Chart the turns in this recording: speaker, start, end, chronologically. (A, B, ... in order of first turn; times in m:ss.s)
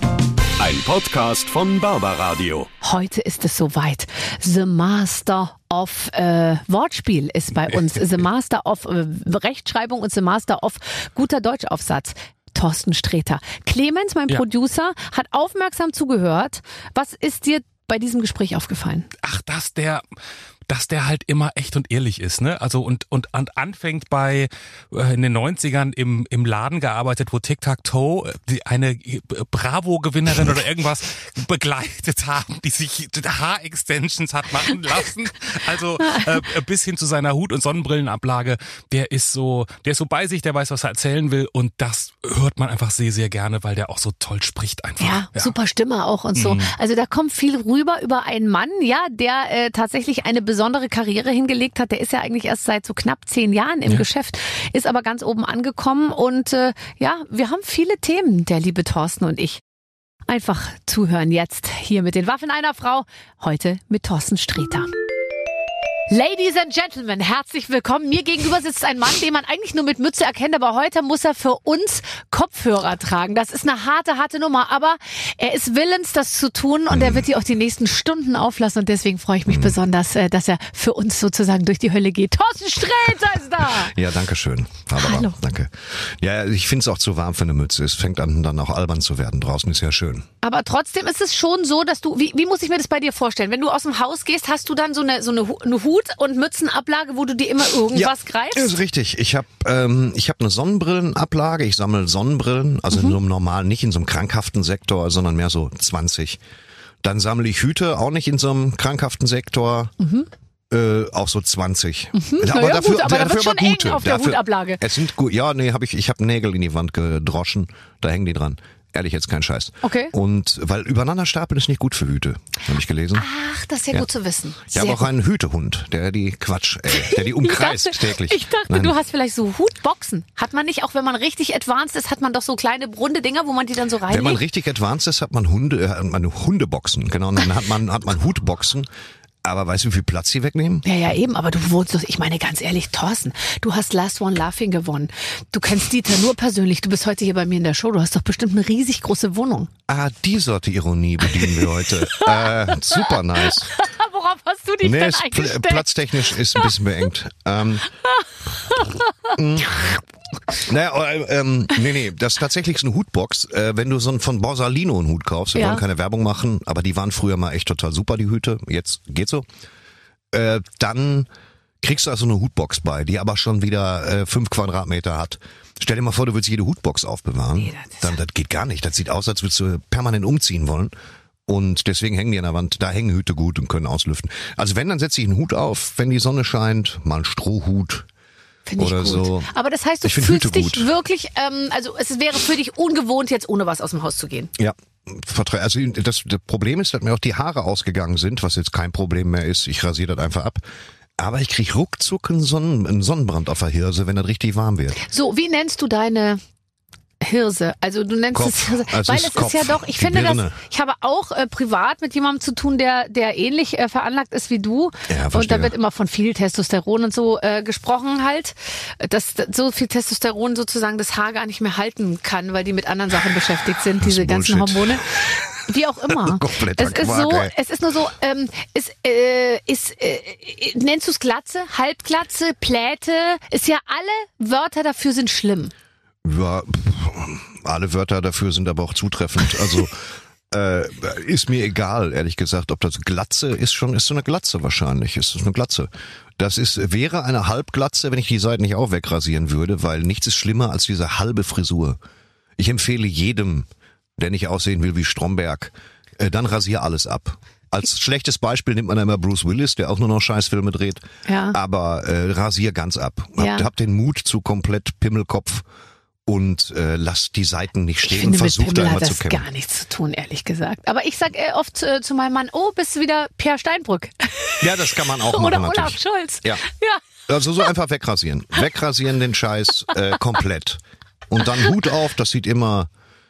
0:00.6-0:02.7 A
0:02.8-0:19.1 B
0:19.2-0:20.0 C
0:20.7-0:45.5 C
0:45.0-0:59.6 B
0:46.4-0:46.7 C
1:00.3-1:04.9 B
1:06.1-1:23.9 B
1:16.9-1:17.3 D
1:19.5-1:19.8 D
1:23.7-1:30.3 D
1:25.0-1:25.3 B
1:30.4-1:38.8 B
1:37.9-1:46.4 D
1:42.9-1:43.2 B
1:47.0-1:49.9 D
1:50.0-1:50.3 B
1:50.7-2:03.3 D
1:52.1-1:54.8 B
1:59.8-2:00.1 B
2:03.1-2:05.1 B
2:04.7-2:09.0 D
2:06.9-2:14.4 B
2:14.1-2:18.9 D
2:19.4-2:20.8 D
2:20.8-2:29.7 B
2:29.9-2:33.7 D
2:32.1-2:36.7 B
2:34.8-2:37.9 D
2:38.0-2:39.4 B
2:39.4-2:40.0 D
2:40.6-2:49.5 D
2:45.6-2:45.8 B
2:50.3-2:51.3 D
2:51.8-3:00.9 D
2:57.6-2:58.1 B
3:01.5-3:08.1 D
3:08.7-3:14.5 B
3:08.8-3:09.5 D
3:10.0-3:10.9 D
3:14.6-3:20.6 D
3:21.2-3:25.0 D
3:25.0-3:26.4 B
3:27.2-3:55.7 B
3:28.3-3:30.6 D
3:35.1-3:35.7 D
3:44.0-3:45.4 D
3:46.1-3:47.5 D
3:56.2-4:12.0 D
4:12.6-4:25.6 D
4:21.3-4:21.6 B
4:23.4-4:23.7 B
4:26.3-4:29.5 D
4:28.0-4:37.0 B
4:34.6-4:36.6 D
4:37.3-4:42.9 D